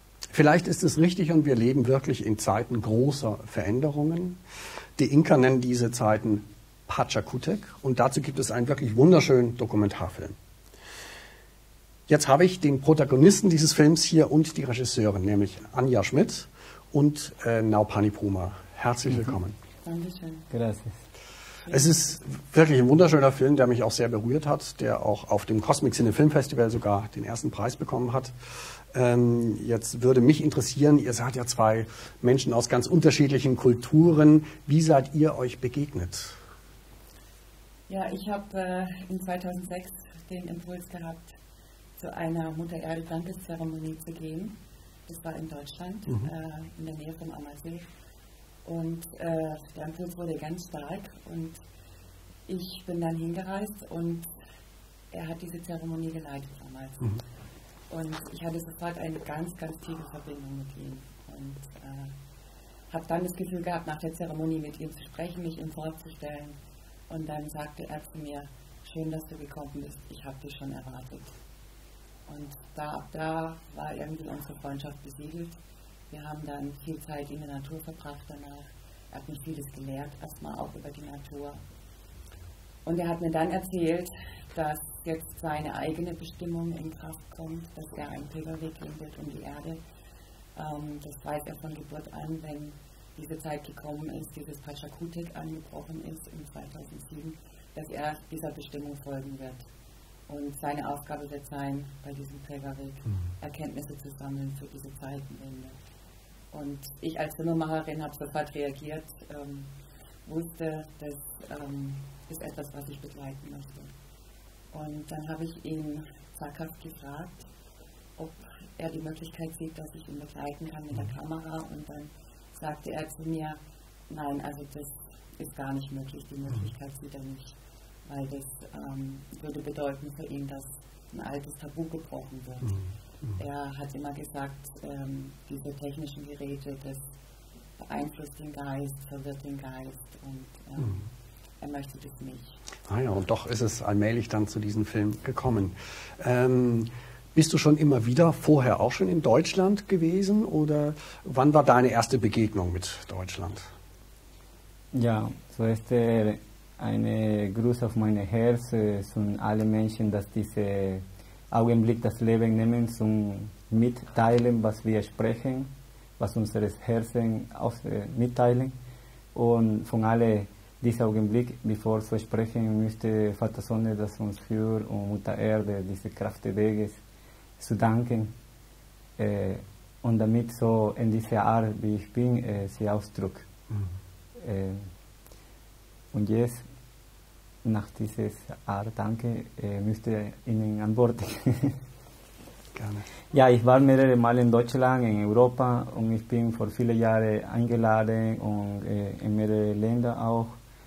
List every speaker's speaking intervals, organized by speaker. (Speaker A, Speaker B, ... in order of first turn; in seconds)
Speaker A: 0.3-4.4, 5.0-10.3, 12.1-19.6, 21.7-36.4, 142.9-153.7, 192.7-193.1
Speaker B: 19.8-20.5, 21.6-22.0, 37.9-41.4, 42.0-47.9, 48.6-51.6, 52.5-54.3, 55.1-57.2, 57.9-62.1, 62.9-66.5, 67.1-71.3, 72.3-75.6, 76.1-81.6, 82.8-89.8, 90.5-99.6, 100.3-105.8, 106.5-109.7, 110.2-113.9, 114.7-117.5, 118.2-132.8, 133.4-137.1, 137.8-142.6
Speaker C: 20.5-20.9, 154.9-168.7, 169.3-177.0, 177.6-178.3, 179.2-183.5, 184.4-184.9, 186.1-186.6, 187.6-191.8, 193.3-200.6